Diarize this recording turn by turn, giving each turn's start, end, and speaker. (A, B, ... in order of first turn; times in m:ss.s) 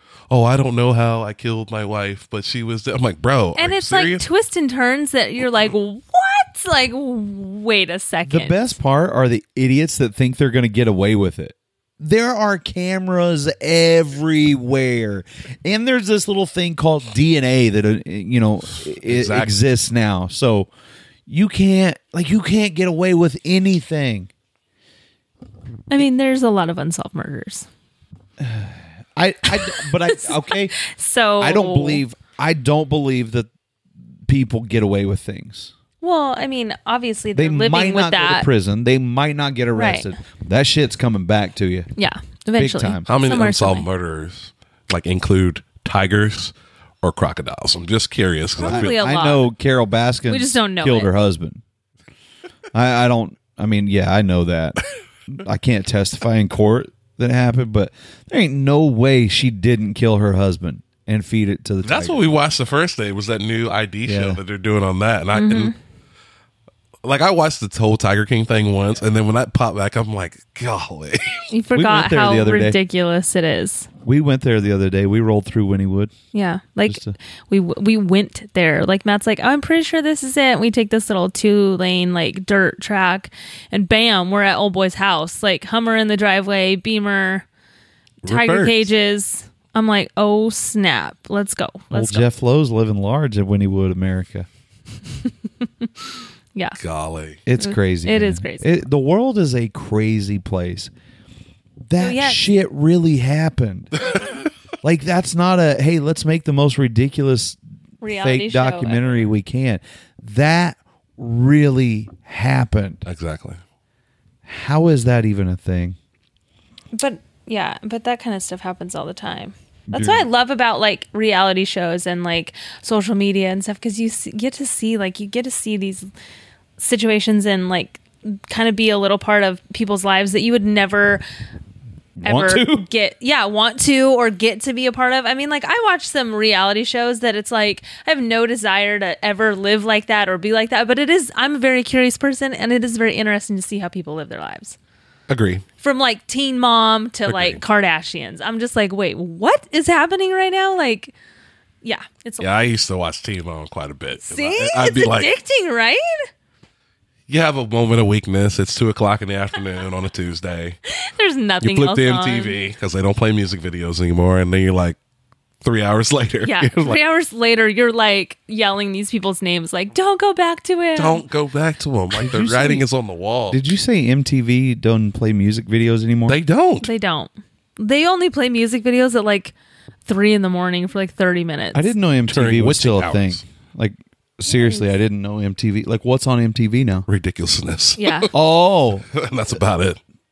0:00.3-0:04.2 A
0:03.6-0:08.6 B
0:08.3-0:20.7 C
0:18.9-0:19.6 A
0:21.3-0:24.3 C
0:25.9-0:27.7 B
0:28.4-0:30.8 C
0:29.8-0:32.0 B
0:31.4-0:33.5 C
0:34.3-0:35.7 C
0:36.0-0:38.5 B
0:37.4-0:41.9 C
0:39.7-0:40.1 B
0:42.0-0:43.9 B
0:42.6-0:43.0 C
0:43.1-0:49.0 A
0:48.6-0:51.6 C
0:48.6-0:49.4 B
0:50.3-0:51.1 B
0:52.7-1:02.2 C
1:01.8-1:05.7 A
1:04.0-1:04.4 C
1:05.3-1:05.8 B
1:07.0-1:11.5 A
1:11.5-1:13.9 B
1:11.7-1:12.8 C
1:14.0-1:16.1 C
1:16.3-1:27.5 B
1:16.9-1:17.2 C
1:28.2-1:28.9 A
1:28.3-1:32.3 B
1:31.9-1:34.5 C
1:36.8-1:37.4 A
1:37.5-1:40.9 C
1:37.6-1:38.8 B
1:41.9-1:44.0 C
1:42.0-1:42.4 B
1:44.0-1:44.4 A
1:44.8-1:53.0 C
1:48.0-1:49.3 B
1:53.1-1:53.6 A
1:54.5-1:56.0 C
1:56.9-2:06.1 B
1:59.9-2:00.3 C
2:06.8-2:11.2 B
2:12.2-2:12.9 C
2:12.2-2:24.8 B
2:25.3-2:25.6 A
2:25.8-2:31.1 B
2:27.3-2:27.6 A
2:31.8-2:32.5 B
2:32.4-2:35.4 A
2:34.2-2:36.2 B
2:37.3-2:40.8 A
2:40.9-2:42.6 B
2:41.6-2:45.0 A
2:45.6-2:47.0 A
2:46.4-2:51.2 B
2:51.0-2:53.6 A
2:52.2-2:52.8 C
2:53.5-2:56.4 C
2:56.3-2:56.9 A
2:56.8-2:59.5 B
3:00.1-3:01.9 B
3:01.7-3:07.1 C
3:02.3-3:03.4 A
3:04.6-3:04.9 B
3:07.1-3:08.3 A
3:08.0-3:08.3 B
3:08.3-3:09.1 C
3:09.1-3:10.0 A